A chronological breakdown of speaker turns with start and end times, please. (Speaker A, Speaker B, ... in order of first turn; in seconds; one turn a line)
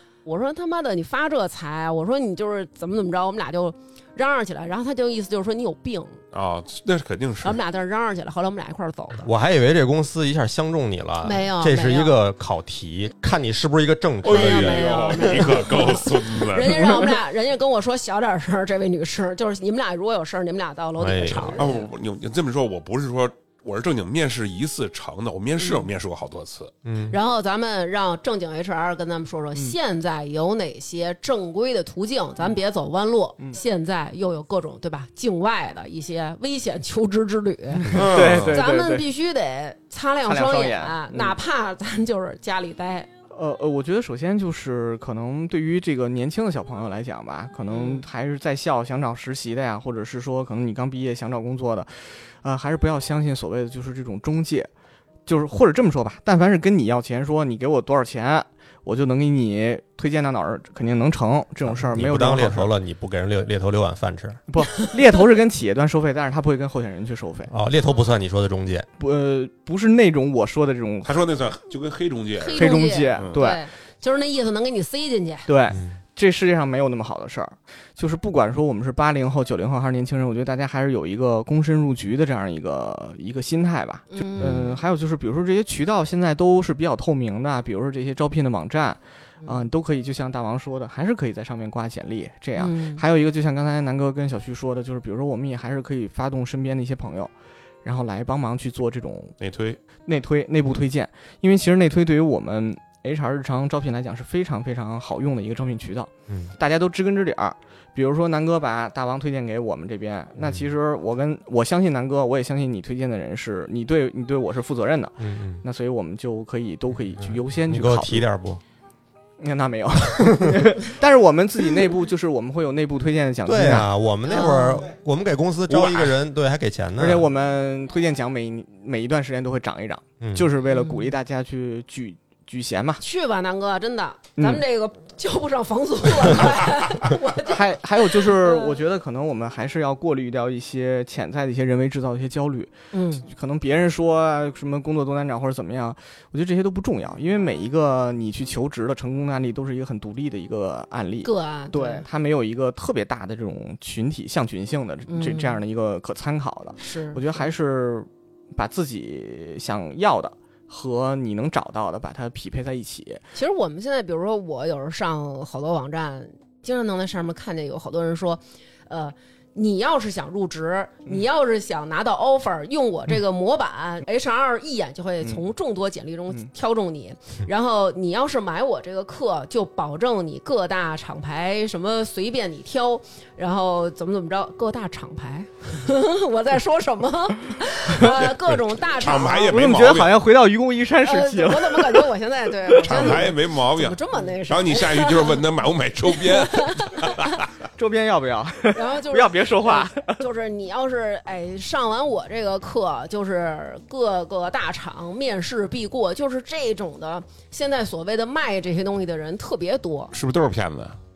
Speaker A: 0.2-6.2
Speaker B: 6.3-7.6
Speaker A: 7.4-9.3
Speaker C: 9.2-15.1
Speaker A: 11.2-12.2
Speaker B: 14.2-17.1
Speaker A: 14.2-21.8
Speaker C: 21.0-21.7
Speaker B: 21.6-26.7
Speaker A: 25.6-25.9
Speaker C: 26.8-27.2
Speaker A: 27.1-43.1
Speaker D: 37.9-39.1
Speaker B: 37.9-38.6
Speaker D: 40.2-41.4
Speaker D: 43.3-54.7
Speaker A: 47.7-48.1
Speaker D: 55.3-62.7
Speaker C: 61.7-64.4
Speaker D: 64.5-67.5
Speaker C: 67.5-68.9
Speaker D: 69.0-71.3
Speaker B: 71.0-73.4
Speaker A: 72.4-75.5
Speaker D: 72.6-73.6
Speaker D: 75.5-97.3
Speaker C: 75.7-76.0
Speaker A: 84.1-84.8
Speaker A: 92.6-93.0
Speaker D: 97.8-99.4
Speaker B: 99.4-99.8
Speaker D: 100.0-118.2
Speaker C: 106.3-106.6
Speaker C: 110.4-110.7
Speaker C: 115.2-115.6
Speaker C: 117.2-118.6
Speaker D: 119.4-123.9
Speaker C: 123.5-127.3
Speaker A: 124.3-124.9
Speaker B: 125.7-126.1
Speaker D: 127.0-133.0
Speaker C: 130.2-130.5
Speaker A: 130.7-131.1
Speaker A: 133.0-138.7
Speaker D: 134.4-134.6
Speaker D: 137.4-163.2
Speaker A: 142.9-143.2
Speaker A: 151.2-152.1
Speaker A: 155.1-155.6
Speaker A: 156.8-157.2
Speaker A: 163.3-189.6
Speaker B: 188.0-190.2
Speaker D: 189.5-192.1
Speaker A: 191.0-195.4
Speaker D: 192.7-193.3
Speaker B: 192.8-197.4
Speaker A: 196.2-197.4
Speaker D: 197.8-200.2
Speaker A: 198.7-210.1
Speaker B: 210.1-211.0